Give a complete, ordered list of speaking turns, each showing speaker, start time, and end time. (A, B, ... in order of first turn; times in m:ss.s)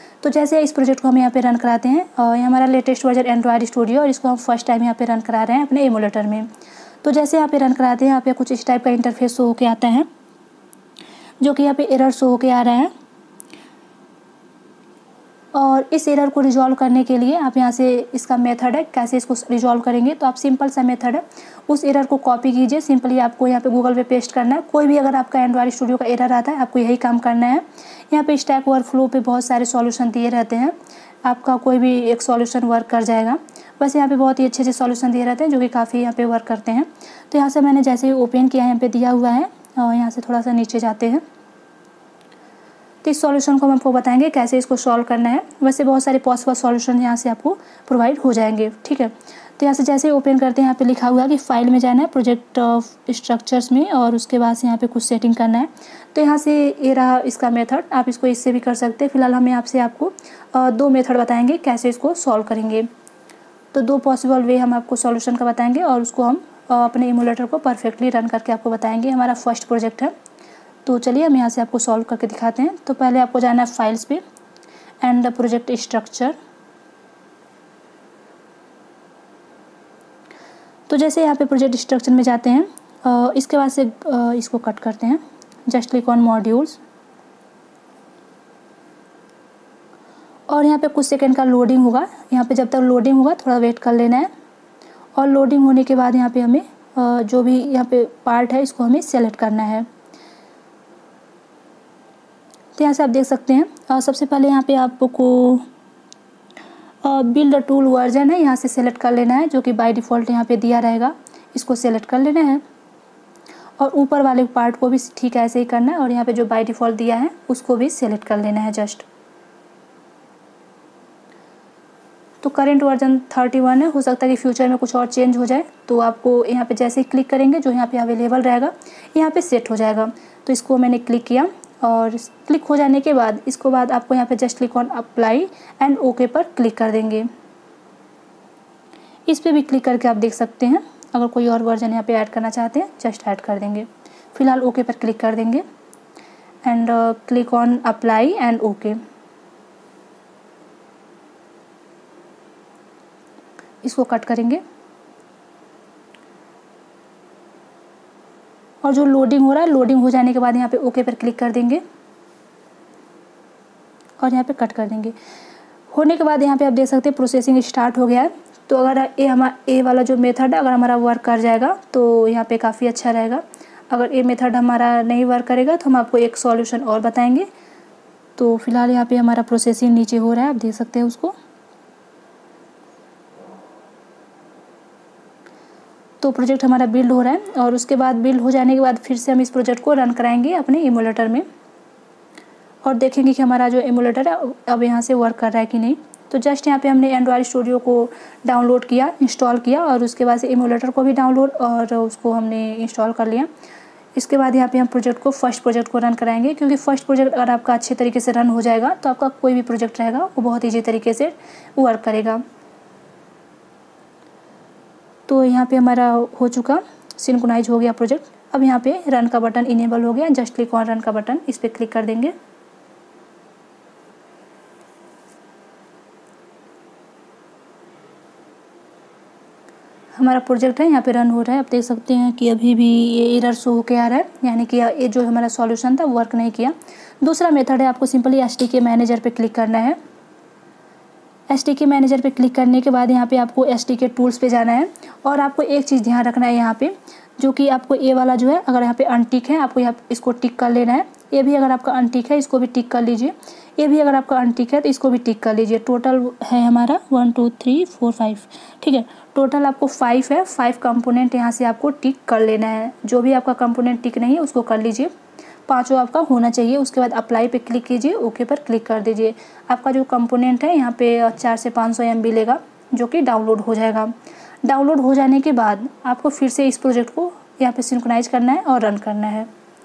0:00.2-0:06.5 A
0:07.0-0:10.1 A
0:11.4-0:12.9 A
0:15.5-0:41.2 A
0:43.0-1:02.9 A
1:03.7-1:10.1 A
1:10.8-1:14.2 A
1:15.0-1:16.4 A
1:20.9-1:26.8 A
1:30.5-1:34.3 A
1:35.2-1:39.9 A
1:42.8-1:45.7 A
1:47.0-1:52.6 A
1:53.8-1:59.0 A
2:02.4-2:17.3 A
2:19.3-2:25.6 A
2:26.6-2:29.0 A
2:33.8-2:34.6 A
2:38.8-2:41.8 A
2:44.2-2:45.1 A
2:45.9-2:57.5 A
2:58.4-3:01.3 A
3:06.2-3:11.5 A
3:12.8-3:23.5 A
3:24.2-3:32.4 A
3:35.3-3:42.3 A
3:50.2-4:00.0 A
4:01.5-4:25.1 A
4:25.7-4:34.1 A
4:34.6-4:39.5 A